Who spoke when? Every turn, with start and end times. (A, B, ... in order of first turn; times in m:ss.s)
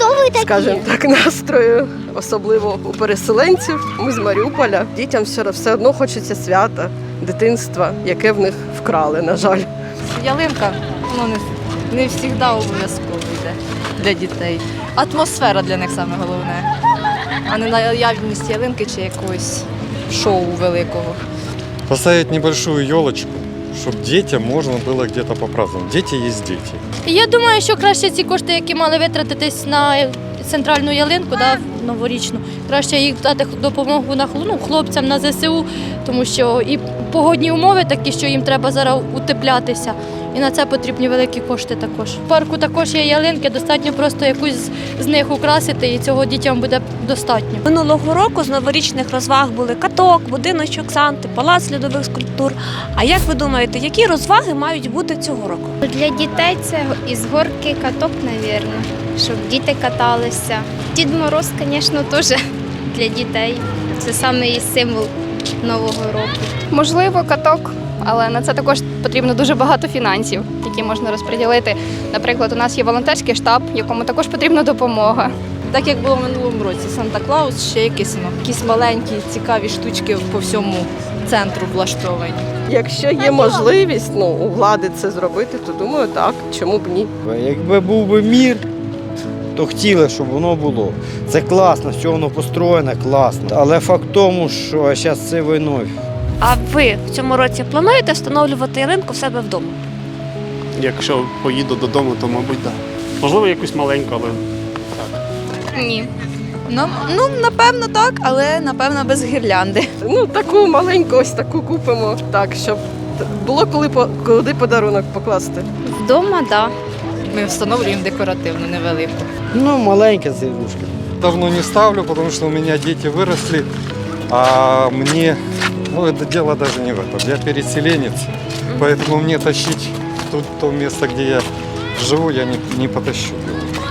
0:00.2-0:09.7 A
0:10.0-0:16.7 B
0:17.4-0:21.2 B
0:21.9-0:26.8 C
0:27.0-0:47.6 D
0:47.6-0:55.8 E
0:55.8-1:06.6 F
1:06.7-1:15.3 G
1:15.7-1:22.5 B
1:22.7-1:27.1 A
1:27.2-1:28.6 H
1:29.5-1:35.9 H
1:36.4-1:39.8 E
1:40.8-1:44.4 I
1:45.7-1:46.1 G
1:46.7-1:49.8 J
1:50.0-1:55.7 A
1:55.8-1:56.7 F
1:57.3-1:59.2 B
1:59.5-2:00.9 H
2:01.2-2:03.7 C
2:04.3-2:05.4 C
2:05.9-2:11.4 C
2:12.0-2:13.7 C